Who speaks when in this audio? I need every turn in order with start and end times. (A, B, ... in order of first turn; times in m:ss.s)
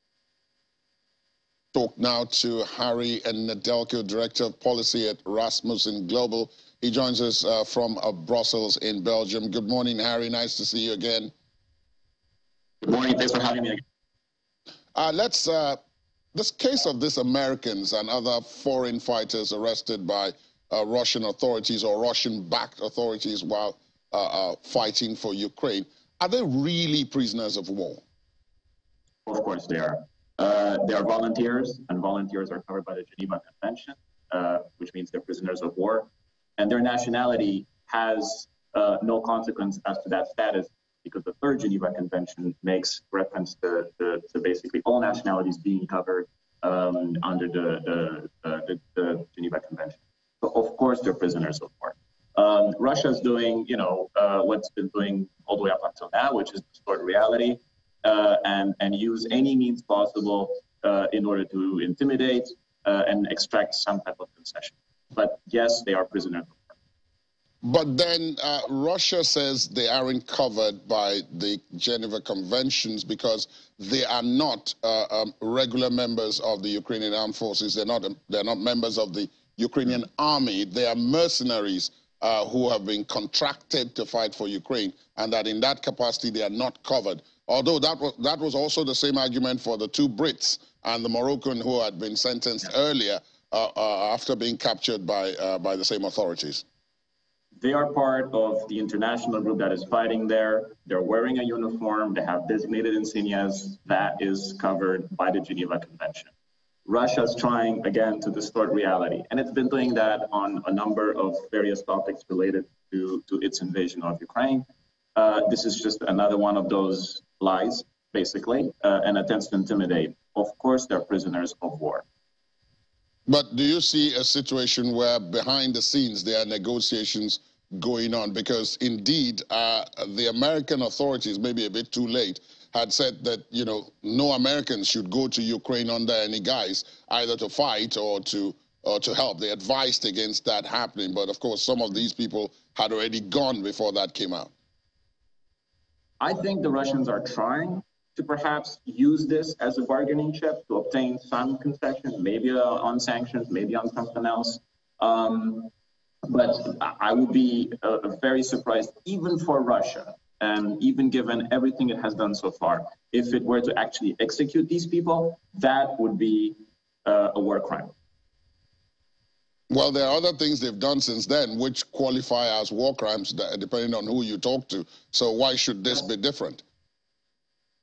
0:01.7-0:11.3 A
0:12.8-0:13.8 B
0:14.9-0:15.8 A
0:16.3-0:28.0 A
0:29.2-1:06.7 B
1:07.6-1:36.6 A
1:37.6-1:46.3 B
1:46.8-2:02.0 B
2:03.3-2:24.5 A
2:26.2-2:35.7 B
2:36.2-2:47.9 B
2:49.7-2:56.6 A